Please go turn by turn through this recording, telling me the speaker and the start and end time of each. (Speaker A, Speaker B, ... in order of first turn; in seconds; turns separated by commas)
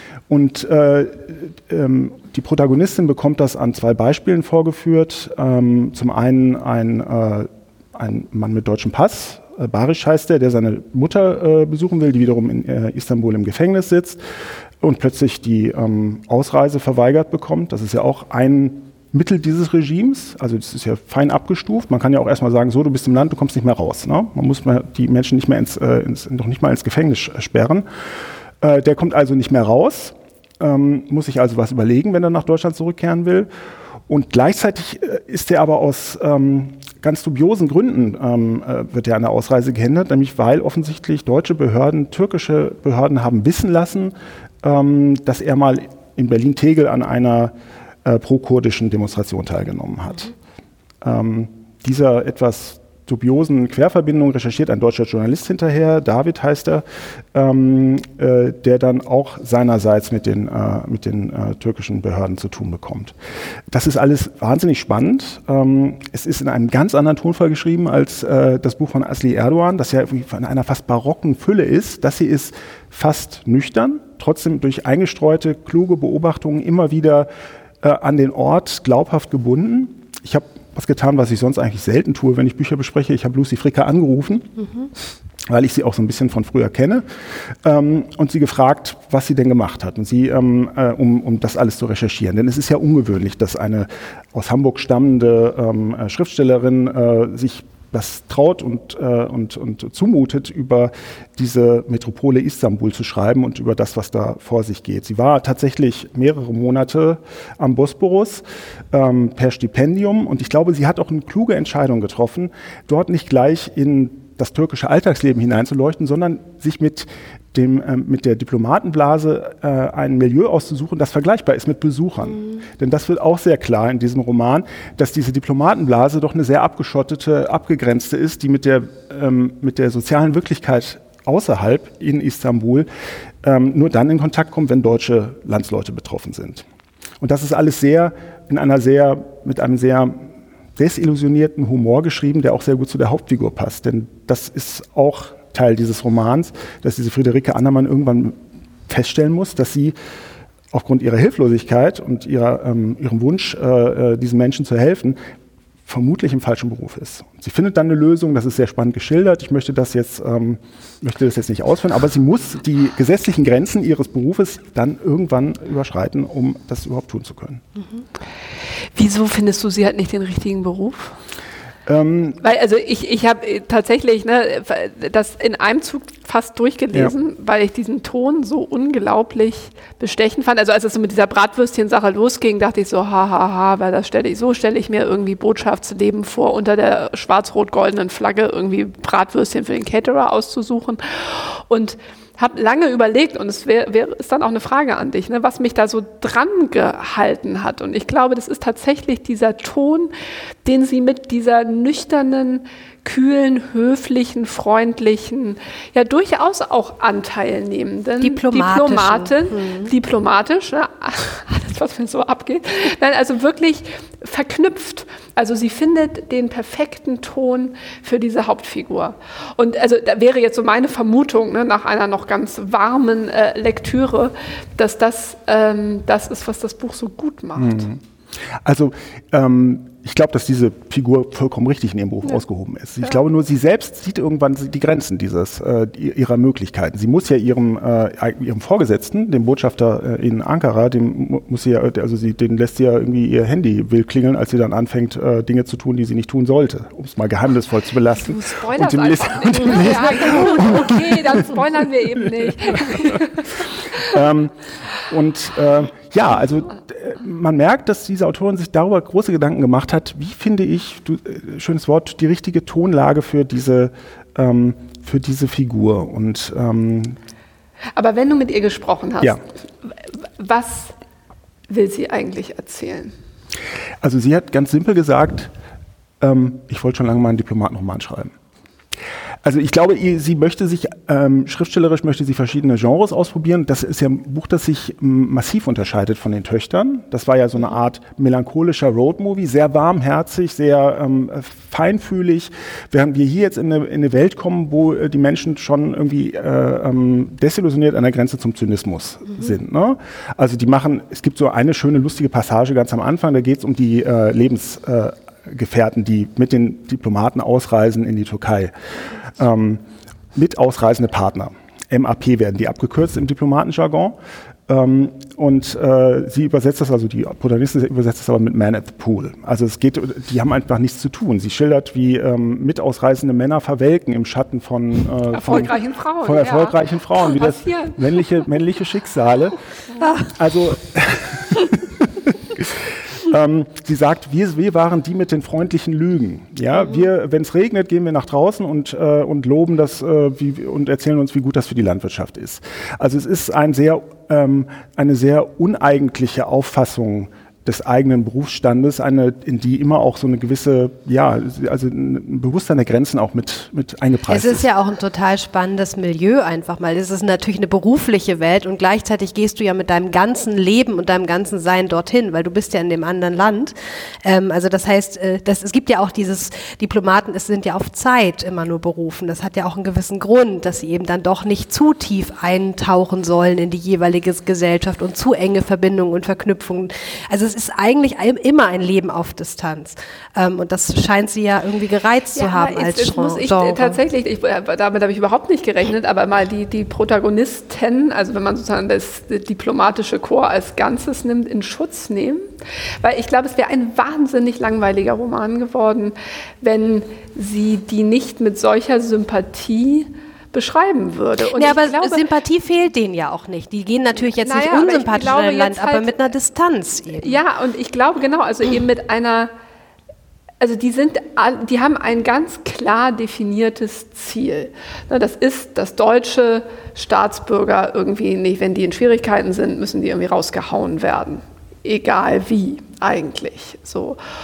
Speaker A: 0.3-14.2, Speaker A: 14.8-27.9, Speaker A: 28.6-33.5, Speaker A: 34.1-47.5, Speaker A: 48.0-50.3, Speaker A: 51.0-63.1, Speaker A: 63.7-77.3, Speaker A: 77.8-84.5, Speaker A: 85.5-87.0, Speaker A: 87.6-132.9, Speaker A: 133.4-136.6, Speaker A: 137.2-149.9, Speaker A: 150.7-155.2, Speaker A: 155.8-167.6, Speaker B: 168.9-171.2, Speaker A: 171.8-172.4, Speaker B: 172.4-200.1, Speaker B: 200.6-227.8, Speaker C: 208.2-209.9, Speaker A: 227.6-228.0, Speaker A: 228.6-251.6, Speaker B: 248.2-254.2, Speaker A: 252.2-253.2, Speaker A: 254.0-254.5, Speaker A: 255.1-267.2, Speaker B: 268.0-270.9, Speaker B: 271.7-273.1, Speaker A: 274.0-275.5, Speaker A: 276.2-278.3, Speaker A: 279.4-308.7, Speaker A: 309.3-309.8, Speaker A: 310.4-314.1, Speaker A: 314.7-329.6, Speaker B: 325.3-328.0, Speaker A: 330.2-354.6, Speaker C: 354.3-384.0, Speaker B: 382.4-392.4, Speaker B: 393.0-402.2, Speaker C: 401.6-407.4, Speaker B: 404.4-406.1, Speaker B: 407.2-409.5, Speaker B: 410.6-424.2